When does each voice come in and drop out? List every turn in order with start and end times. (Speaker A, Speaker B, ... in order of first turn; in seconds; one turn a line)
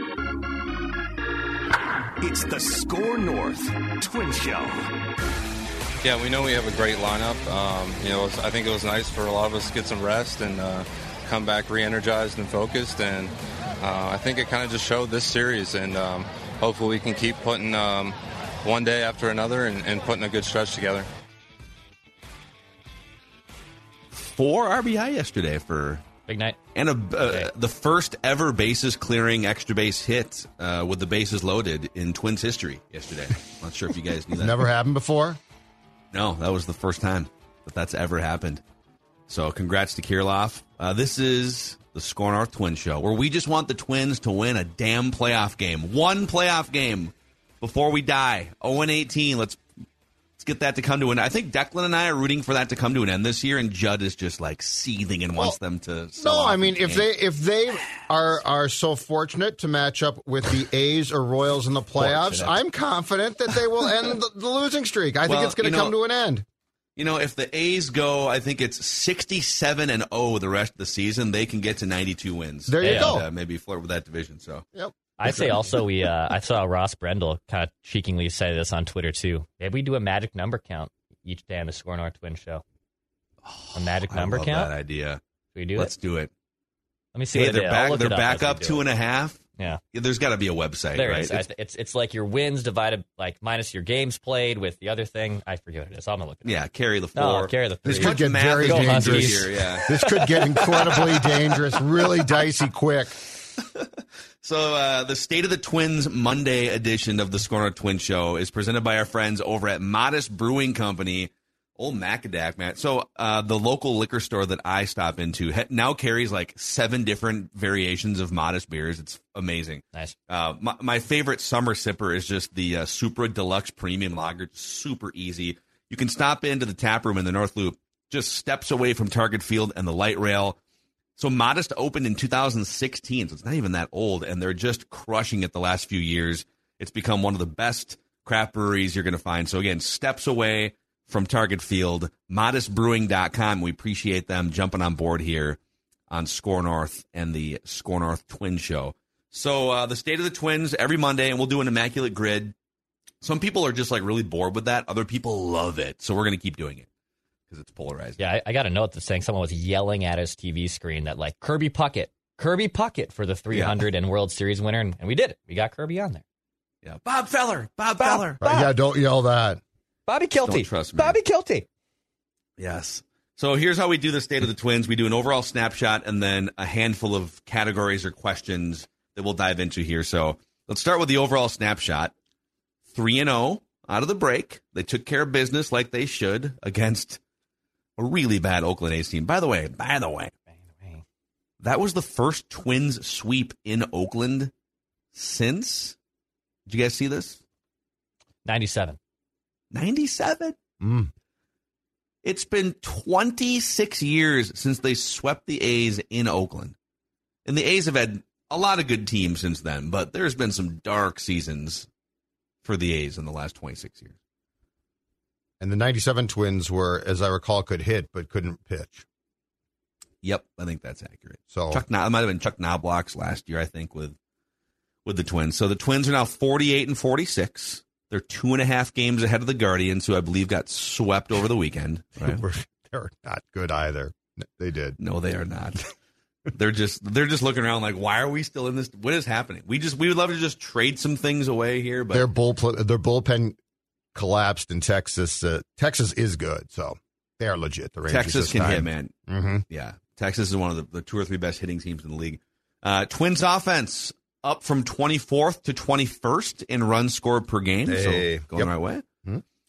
Speaker A: 2.2-4.9
Speaker B: 6.0-21.1
Speaker C: 24.1-26.0
Speaker D: 26.3-26.6
Speaker C: 26.7-34.6
Speaker D: 27.2-27.5
Speaker E: 34.4-35.4
Speaker C: 36.1-38.6
Speaker C: 39.3-49.6
Speaker C: 50.4-57.0
Speaker E: 56.2-66.4
Speaker C: 62.0-62.5
Speaker C: 65.2-66.0
Speaker C: 67.0-74.6
Speaker E: 72.7-73.3
Speaker D: 72.8-73.2
Speaker E: 74.7-75.6
Speaker D: 75.2-82.6
Speaker C: 83.4-85.2
Speaker D: 83.7-84.7
Speaker D: 85.5-85.9
Speaker C: 85.8-86.3
Speaker D: 87.1-88.8
Speaker C: 87.3-89.4
Speaker C: 89.9-91.4
Speaker D: 90.9-96.6
Speaker C: 96.4-99.9
Speaker D: 97.1-101.0
Speaker E: 97.8-103.2
Speaker C: 100.6-101.3
Speaker C: 103.6-103.9
Speaker C: 104.4-130.6
Speaker C: 131.2-145.6
Speaker C: 146.1-152.5
Speaker C: 153.2-156.9
Speaker C: 157.5-158.2
Speaker D: 158.2-166.2
Speaker C: 163.5-163.8
Speaker C: 166.8-168.4
Speaker D: 168.0-168.7
Speaker E: 168.4-169.6
Speaker D: 170.1-171.7
Speaker C: 170.4-171.2
Speaker C: 172.6-182.1
Speaker C: 182.9-187.2
Speaker C: 188.0-190.3
Speaker D: 190.6-191.0
Speaker C: 191.6-194.5
Speaker C: 195.1-195.9
Speaker C: 196.7-197.4
Speaker D: 198.4-199.0
Speaker C: 199.7-200.6
Speaker E: 200.8-201.1
Speaker C: 202.2-206.7
Speaker C: 207.4-211.9
Speaker C: 212.6-214.1
Speaker E: 215.6-219.1
Speaker C: 220.2-224.2
Speaker E: 221.5-221.8
Speaker C: 225.0-232.4
Speaker E: 232.2-235.0
Speaker C: 235.0-235.9
Speaker C: 236.5-242.3
Speaker E: 242.1-243.6
Speaker E: 244.1-249.6
Speaker C: 248.1-249.1
Speaker C: 249.7-259.0
Speaker E: 257.9-258.7